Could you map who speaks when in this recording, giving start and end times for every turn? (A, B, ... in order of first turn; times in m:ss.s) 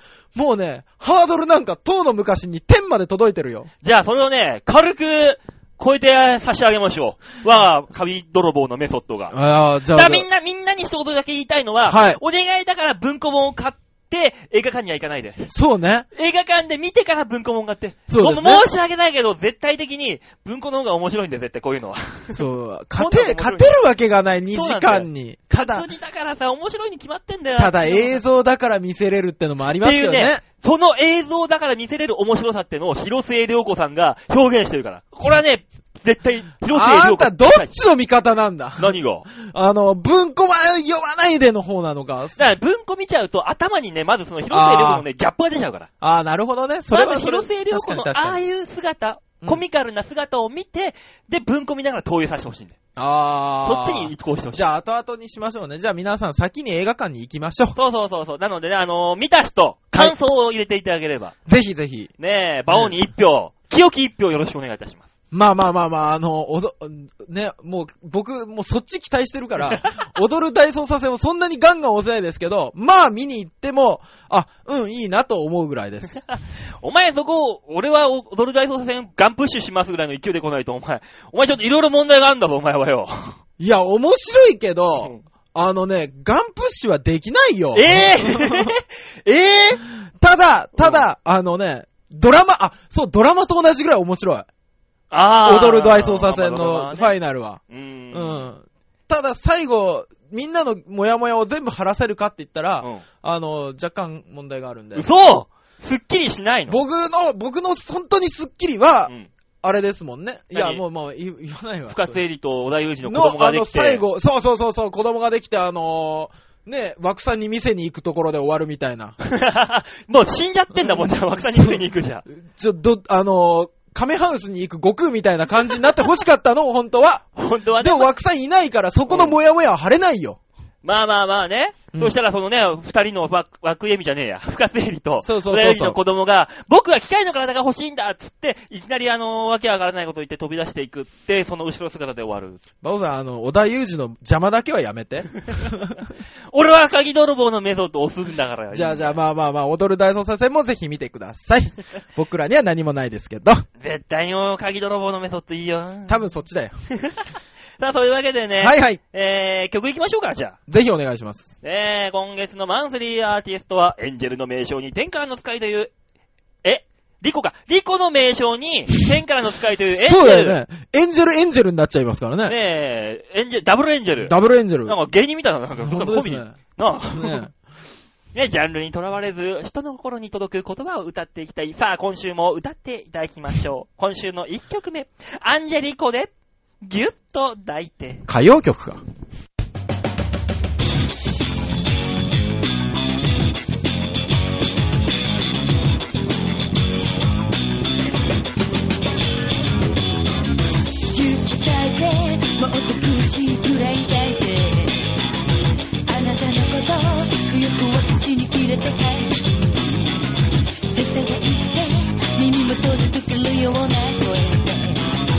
0:00.3-0:03.7 A
0:03.8-0:09.3 B
0:09.3-0:10.2 A
0:09.9-0:15.5 B
0:11.9-0:12.2 A
0:15.5-0:16.1 A
0:16.1-0:22.4 B
0:18.1-0:18.6 A
0:22.3-0:25.9 A
0:23.0-0:23.8 B
0:24.5-0:28.2 B
0:27.6-0:30.4 A
0:29.8-0:37.8 B
0:36.7-0:42.4 A
0:38.8-0:39.3 B
0:42.4-0:45.9 B
0:44.5-0:45.0 A
0:46.0-0:48.4 A
0:46.9-0:52.8 B
0:53.0-0:57.8 A
0:53.6-0:54.7 B
0:57.7-1:01.3 B
1:01.4-1:02.1 A
1:02.2-1:05.1 B
1:02.7-1:03.0 A
1:05.3-1:16.2 A
1:09.7-1:10.0 B
1:16.8-1:23.4 B
1:23.6-1:28.7 A
1:25.0-1:25.2 B
1:27.7-1:29.8 B
1:30.0-1:34.5 A
1:30.8-1:31.1 B
1:35.1-1:37.2 B
1:35.4-1:37.6 A
1:37.7-1:38.5 B
1:38.1-1:45.0 A
1:44.9-1:46.8 B
1:46.7-1:52.2 A
1:50.5-1:50.8 B
1:51.9-1:54.0 B
1:53.0-1:59.2 A
1:59.2-2:02.2 B
2:00.8-2:01.8 A
2:02.4-2:07.3 A
2:07.4-2:08.1 B
2:07.8-2:10.4 A
2:09.1-2:09.4 B
2:10.8-2:22.6 B
2:15.2-2:16.0 A
2:22.8-2:26.0 A
2:26.5-2:29.2 B
2:28.7-2:33.6 A
2:33.8-2:36.2 B
2:36.1-2:36.7 A
2:36.9-2:40.6 B
2:38.6-2:39.0 A
2:40.7-2:41.5 A
2:41.6-2:45.9 B
2:46.6-2:50.6 B
2:49.9-2:52.5 A
2:52.4-2:54.3 B
2:54.2-2:55.0 A
2:54.8-2:57.5 B
2:55.8-2:56.6 A
2:57.1-2:57.5 A
2:58.3-3:08.2 B
3:08.3-3:09.0 A
3:21.1-3:25.1 C
3:26.1-3:30.3 C
3:30.9-3:35.2 C